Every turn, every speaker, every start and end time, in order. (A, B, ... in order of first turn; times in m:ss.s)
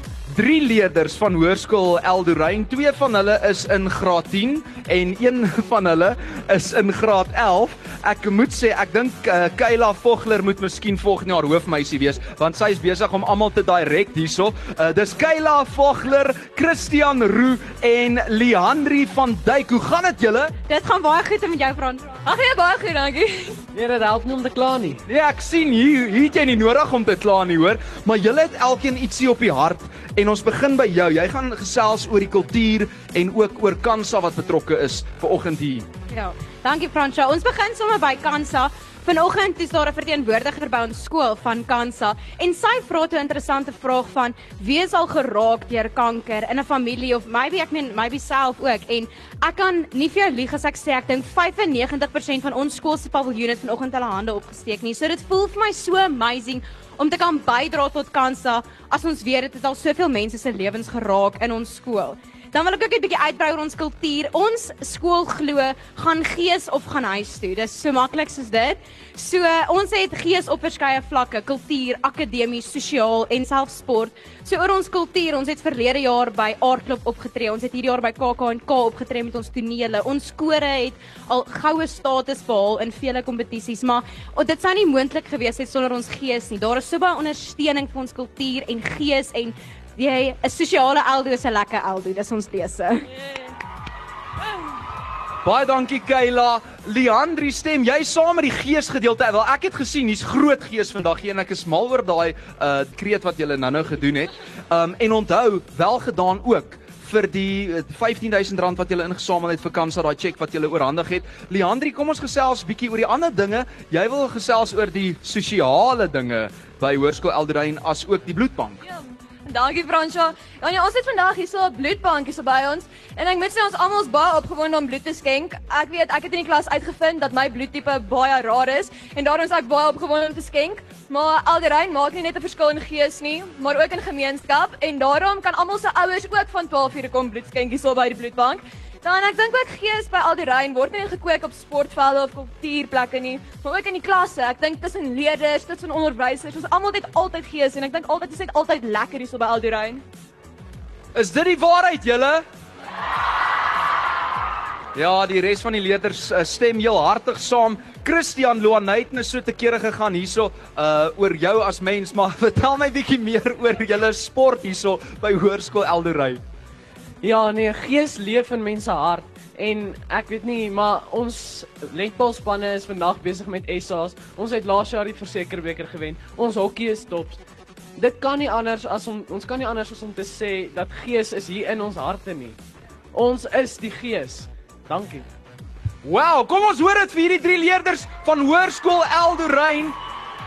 0:00.3-0:20.5 A
0:20.7-0:22.2 B
0:22.2-0:23.6 C
0:23.7-0:25.0 D
0:25.1-0:35.8 A
0:36.1-1:33.1 B
1:35.4-1:58.8 A
1:58.8-2:30.0 C
2:31.1-2:32.4 A
2:34.9-2:46.4 A
2:47.2-2:57.4 D
2:58.0-3:02.6 D
3:03.1-3:05.3 D
3:06.0-3:10.0 A